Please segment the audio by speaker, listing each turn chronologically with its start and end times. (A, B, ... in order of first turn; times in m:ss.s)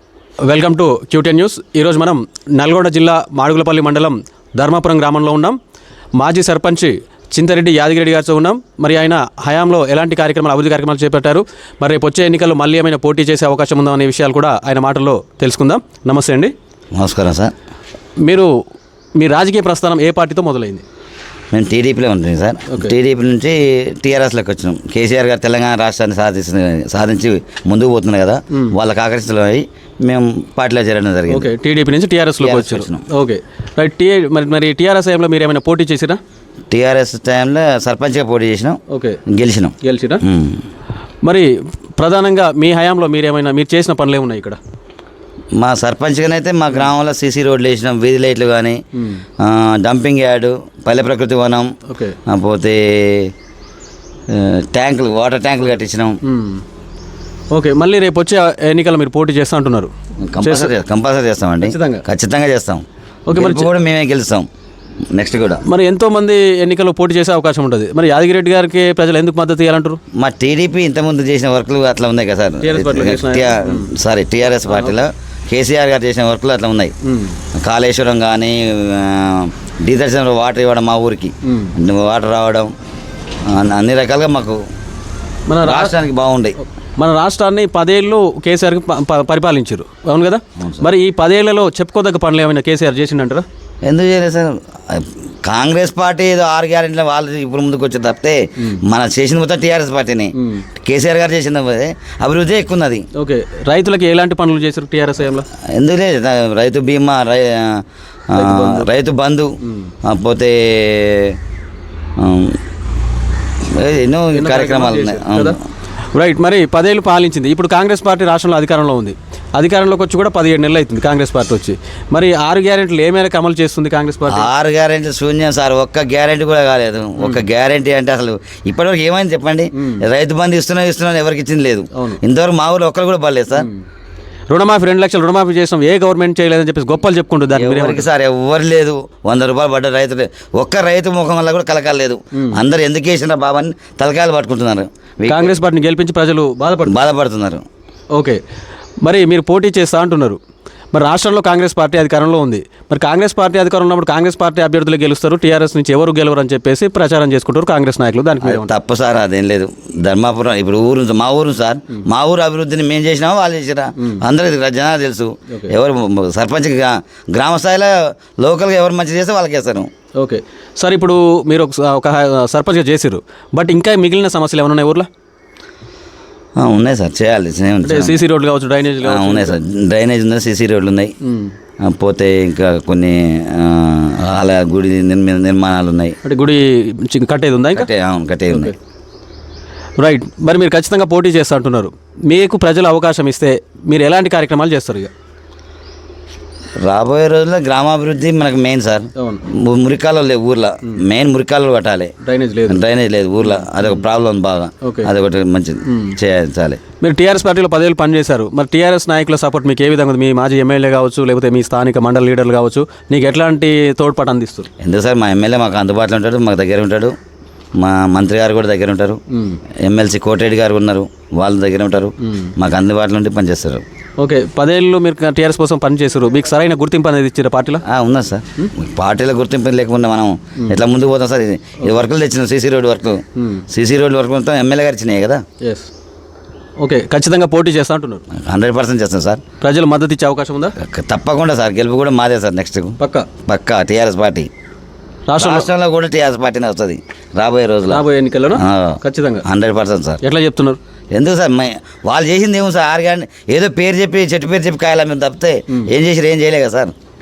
0:00.4-0:05.6 A
0:06.2-0:16.5 A
0:16.9-0:17.5 B
0:18.2-0:18.5 A
0:19.2-0:20.8 A
0:21.5-0:31.5 B
0:31.3-0:36.2 A
0:32.4-0:33.0 B
0:36.7-0:40.6 B
0:38.9-0:39.2 A
0:39.8-0:40.2 A
0:41.2-0:44.6 A
0:45.6-0:48.8 B
0:49.0-0:49.2 A
0:49.4-0:51.7 B
0:51.9-0:52.2 A
0:52.3-0:53.3 B
0:54.3-0:56.2 B
0:56.2-0:56.6 A
0:57.5-1:00.7 A
1:00.2-1:04.4 B
1:01.6-1:02.0 A
1:03.3-1:03.7 A
1:05.1-1:05.6 B
1:05.6-1:10.0 A
1:10.2-1:16.9 B
1:12.6-1:13.9 A
1:14.6-1:14.9 A
1:17.0-1:17.4 A
1:17.5-1:22.7 B
1:21.5-1:21.7 A
1:23.4-1:24.6 B
1:25.5-1:26.0 A
1:25.6-1:26.6 B
1:27.0-1:33.4 A
1:30.6-1:30.9 B
1:33.8-1:43.0 B
1:40.4-1:40.6 A
1:43.1-1:45.4 A
1:45.7-1:49.5 B
1:48.3-1:48.9 A
1:50.0-1:51.4 B
1:52.2-1:52.6 B
1:53.7-1:55.6 B
1:54.3-1:55.6 A
1:56.1-2:04.5 A
2:04.3-2:13.7 B
2:09.8-2:10.0 A
2:11.9-2:12.2 A
2:14.5-2:18.1 A
2:17.5-2:25.6 B
2:25.3-2:27.0 A
2:26.8-2:27.6 B
2:28.1-2:28.4 A
2:29.0-2:30.4 A
2:30.9-2:38.7 A
2:38.4-2:49.9 B
2:50.2-2:55.1 A
2:56.6-2:58.2 B
2:57.8-2:59.6 A
2:59.0-3:01.1 B
3:01.2-3:01.5 A
3:01.8-3:06.2 B
3:06.2-3:07.9 A
3:07.7-3:08.7 B
3:08.5-3:08.7 A
3:10.0-3:15.1 A
3:16.8-3:22.1 B
3:19.2-3:19.4 A
3:22.2-3:22.8 A
3:22.6-3:26.8 B
3:23.4-3:24.0 A
3:24.8-3:25.1 A
3:25.8-3:26.2 A
3:27.0-3:34.7 A
3:34.8-3:37.1 B
3:37.8-3:39.2 B
3:39.3-3:39.6 A
3:39.8-3:43.8 B
3:42.2-3:42.5 A
3:44.2-3:47.8 A
3:47.8-3:55.4 B
3:53.4-3:53.6 A
3:55.6-3:55.9 A
3:56.8-3:58.2 A
3:58.3-3:59.4 B
3:59.6-4:00.8 A
4:00.8-4:04.5 B
4:03.0-4:03.3 A
4:05.3-4:05.7 A
4:05.4-4:08.0 B
4:07.9-4:09.4 A
4:08.5-4:10.2 B
4:10.2-4:10.8 A
4:11.1-4:16.9 B